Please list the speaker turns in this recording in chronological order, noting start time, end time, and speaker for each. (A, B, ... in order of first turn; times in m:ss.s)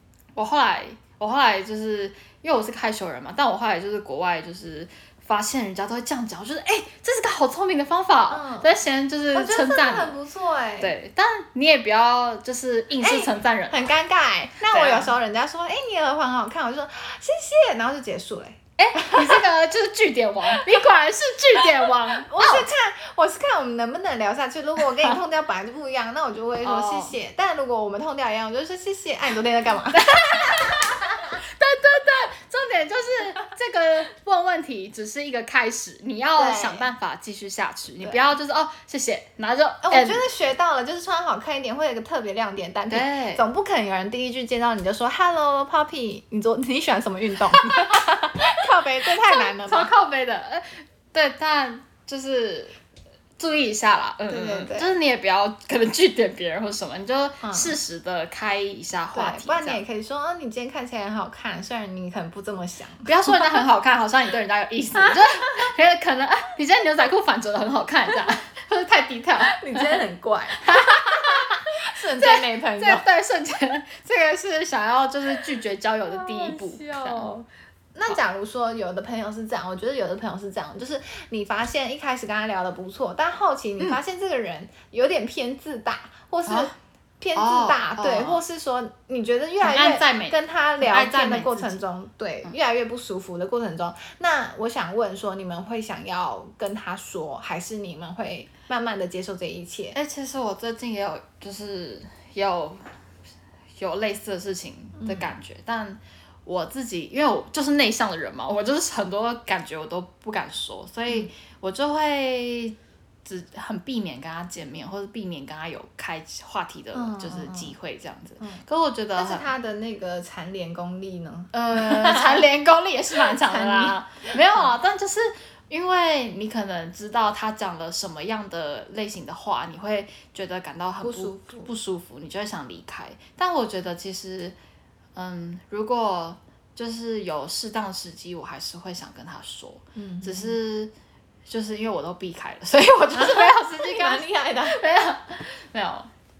0:00.3-0:10.2 A
0:08.3-0:08.7 B
0:09.3-0:10.9 B
0:10.8-0:13.9 A
0:13.0-0:19.4 B
0:14.7-0:15.1 A
0:18.8-0:22.7 A
0:22.1-0:30.8 B
0:26.6-0:27.2 A
0:29.9-0:40.2 A
0:36.4-0:36.9 B
0:38.0-0:38.3 B
0:39.8-0:49.9 B
0:42.9-0:43.4 A
0:47.5-0:52.7 A
0:53.4-0:59.8 A
0:54.3-0:54.9 B
0:57.4-0:57.8 B
0:59.1-1:03.6 B
1:03.0-1:10.0 A
1:05.0-1:05.6 B
1:09.4-1:13.0 B
1:10.6-1:17.3 A
1:16.1-1:40.0 B
1:26.5-1:26.7 A
1:27.3-1:28.4 A
1:29.6-1:31.8 A
1:39.9-1:42.9 A
1:43.8-1:59.5 A
1:45.0-1:45.3 B
1:56.9-1:57.8 B
1:59.2-2:02.5 B
2:01.5-2:14.6 A
2:03.2-2:04.6 B
2:11.0-2:11.7 B
2:15.1-2:20.9 A
2:19.9-2:20.6 B
2:21.4-2:26.1 A
2:23.1-2:24.8 B